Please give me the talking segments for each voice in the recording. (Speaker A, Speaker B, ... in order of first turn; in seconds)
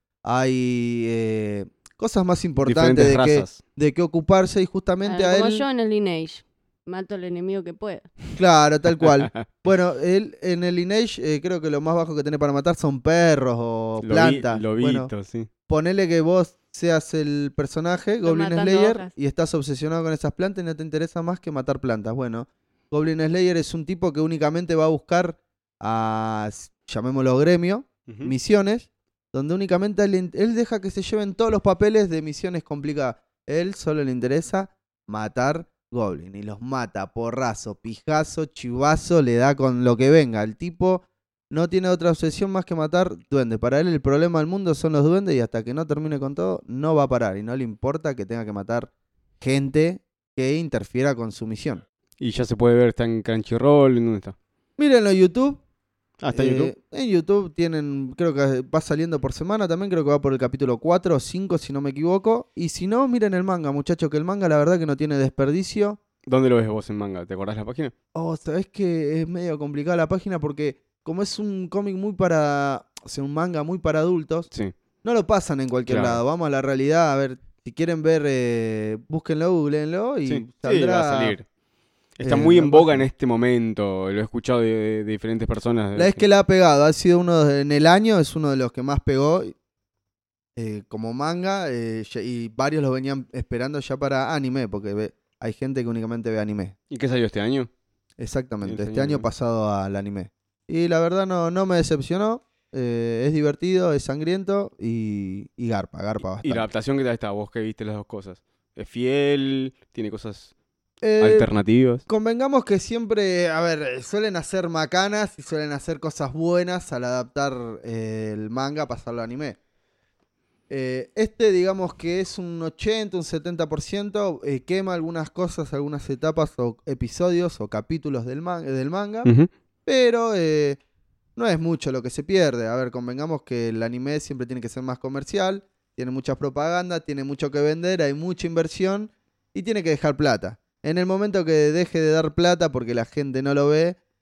Speaker A: 0.2-5.7, 8.4-15.1, 15.7-48.9, 49.4-51.8, 54.8-55.6, 56.3-66.0, 68.2-74.5, 75.0-81.4, 82.2-83.1, 86.0-89.5, 90.6-96.7, 98.2-106.7, 111.0-111.5, 112.1-119.6, 120.7-129.3, 129.9-130.8, 131.4-144.0
Speaker B: 2.6-3.6, 9.0-9.4, 14.0-15.5, 28.1-28.3, 52.2-54.4, 56.2-56.7, 66.3-67.9, 75.9-76.2, 80.3-81.4, 82.2-86.2, 96.9-97.7, 98.6-99.3, 106.4-110.5, 111.2-112.0, 129.2-129.5
Speaker C: 5.0-8.1, 18.2-19.1